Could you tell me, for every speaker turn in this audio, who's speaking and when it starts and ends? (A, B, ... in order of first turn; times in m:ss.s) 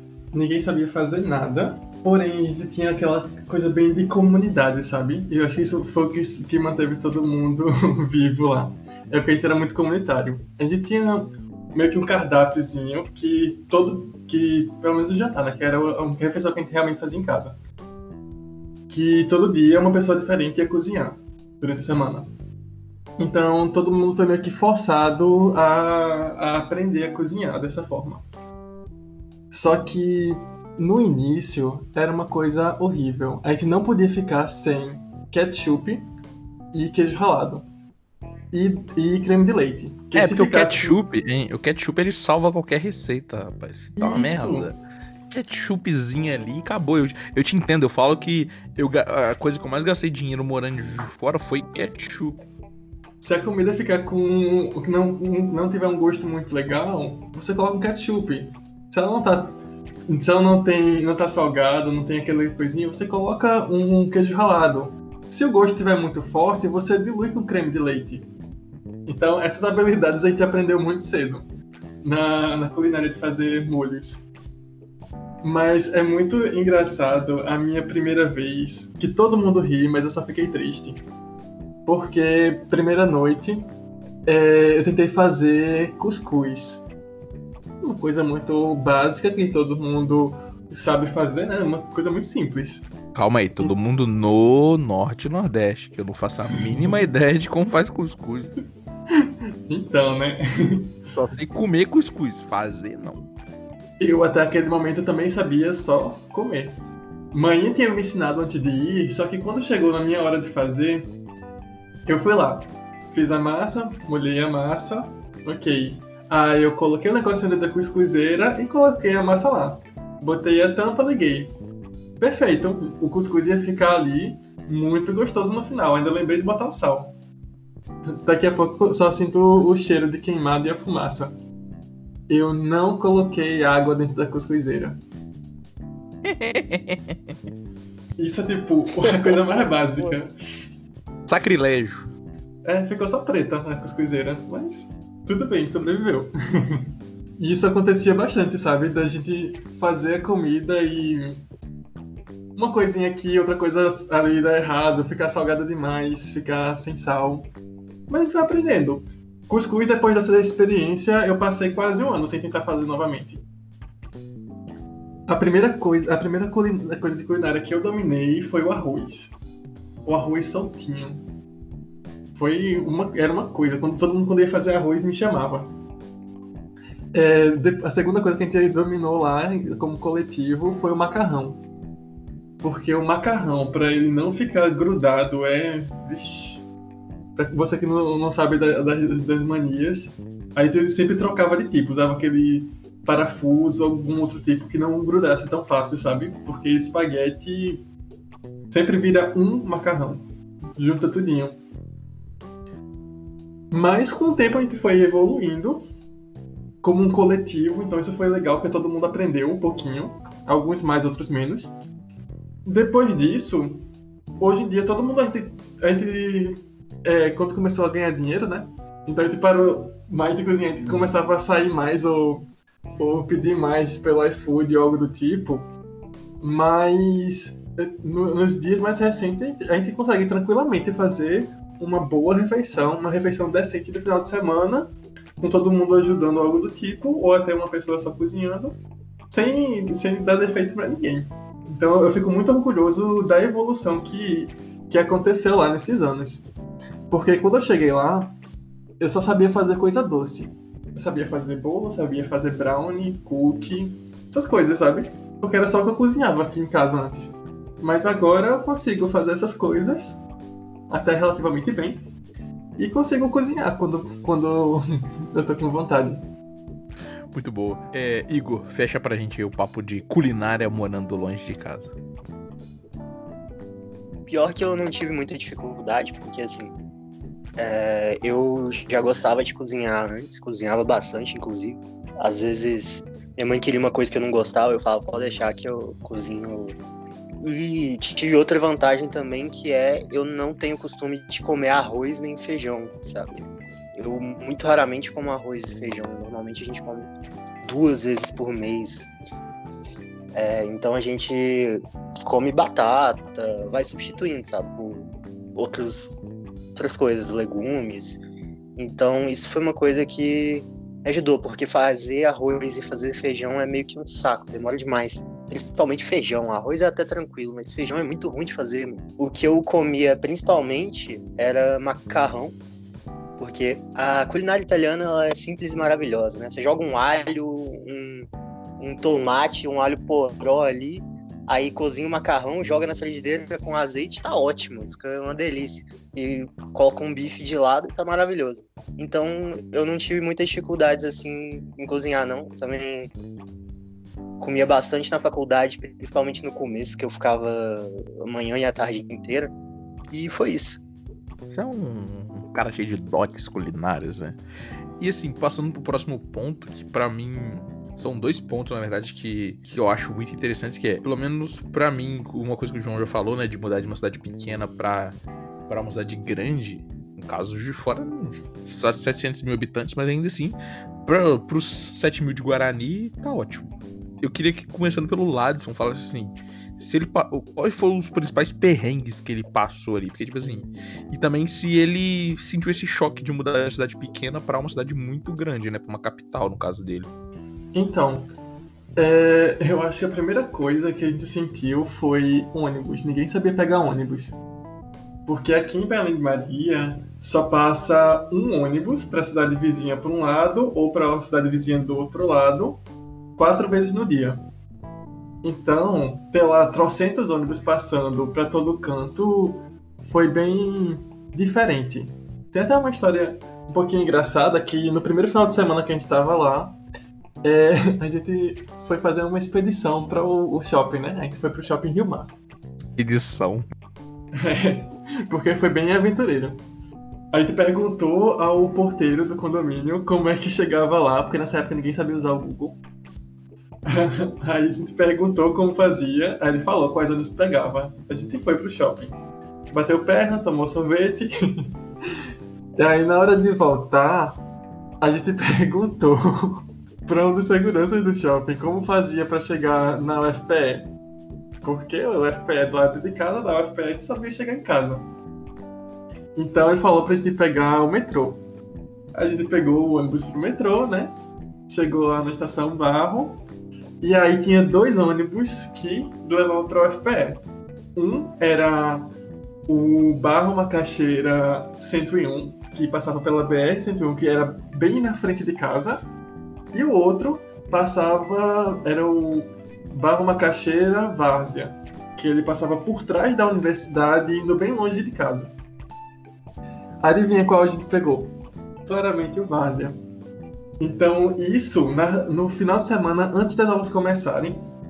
0:00.3-0:17.6 A
0:18.9-0:22.3 A
0:23.2-0:28.2 A
0:29.5-0:36.0 A
0:36.7-0:37.7 A
0:38.5-0:41.0 A
0:40.1-0:44.8 B
0:44.0-0:44.7 A
0:45.3-0:52.4 B
0:53.2-1:08.3 A
1:09.0-1:11.4 A
1:12.0-1:14.2 A
1:15.4-1:21.0 A
1:21.8-1:23.7 A
1:24.2-1:26.8 A
1:27.8-1:32.9 A
1:33.1-1:38.5 B
1:36.5-1:36.9 A
1:39.1-1:40.9 A
1:41.1-1:43.2 B
1:44.0-1:46.8 A
1:47.3-1:51.1 A
1:52.0-2:01.5 A
2:02.2-2:07.2 A
2:08.2-2:11.4 A
2:12.3-2:15.0 A
2:16.2-2:17.3 B
2:18.2-2:20.3 A
2:21.3-2:22.1 B
2:22.6-2:26.8 A
2:27.4-2:31.4 A
2:32.6-2:37.5 A
2:38.1-2:43.4 A
2:45.3-2:49.3 A
2:50.0-2:51.2 A
2:52.3-2:55.7 A
2:57.1-3:01.6 A
3:02.6-3:06.6 A
3:07.4-3:17.8 A
3:18.7-3:20.2 A
3:20.8-3:21.6 A
3:23.7-3:25.8 A
3:26.8-3:31.7 A
3:32.6-3:33.9 A
3:34.4-3:45.7 A
3:46.4-3:58.8 A
3:59.3-4:06.5 A
4:07.1-4:08.4 A
4:09.0-4:20.2 A
4:20.9-4:22.0 A
4:22.8-4:26.2 A
4:27.3-4:31.9 B
4:34.3-4:36.7 C
4:37.6-4:46.8 C
4:47.4-4:53.4 C
4:53.9-4:57.1 C
4:57.6-4:59.1 C
5:00.3-5:06.1 C
5:06.8-5:08.2 C
5:08.8-5:22.6 C
5:23.4-5:28.3 C
5:28.8-5:43.1 C
5:44.4-5:49.5 C
5:50.1-5:50.8 C
5:51.5-5:54.4 B
5:55.0-6:05.2 B
6:05.7-6:13.7 B
6:14.2-6:27.1 B
6:27.7-6:28.3 A
6:29.0-6:34.4 A
6:35.2-6:42.8 A
6:43.4-6:44.4 A
6:45.4-6:56.8 A
6:57.4-7:02.3 A
7:03.0-7:03.6 B
7:04.4-7:06.6 A
7:07.3-7:12.8 A
7:13.8-7:19.1 A
7:19.7-7:21.7 A
7:22.8-7:24.4 A
7:25.0-7:30.9 A
7:31.6-7:35.1 A
7:36.3-7:38.4 A
7:39.1-7:41.2 A
7:41.7-7:43.4 A
7:44.0-7:47.4 A
7:47.9-7:49.1 A
7:49.7-7:56.1 A
7:56.7-8:05.5 A
8:07.0-8:08.3 A
8:08.8-8:10.0 A
8:10.8-8:14.6 A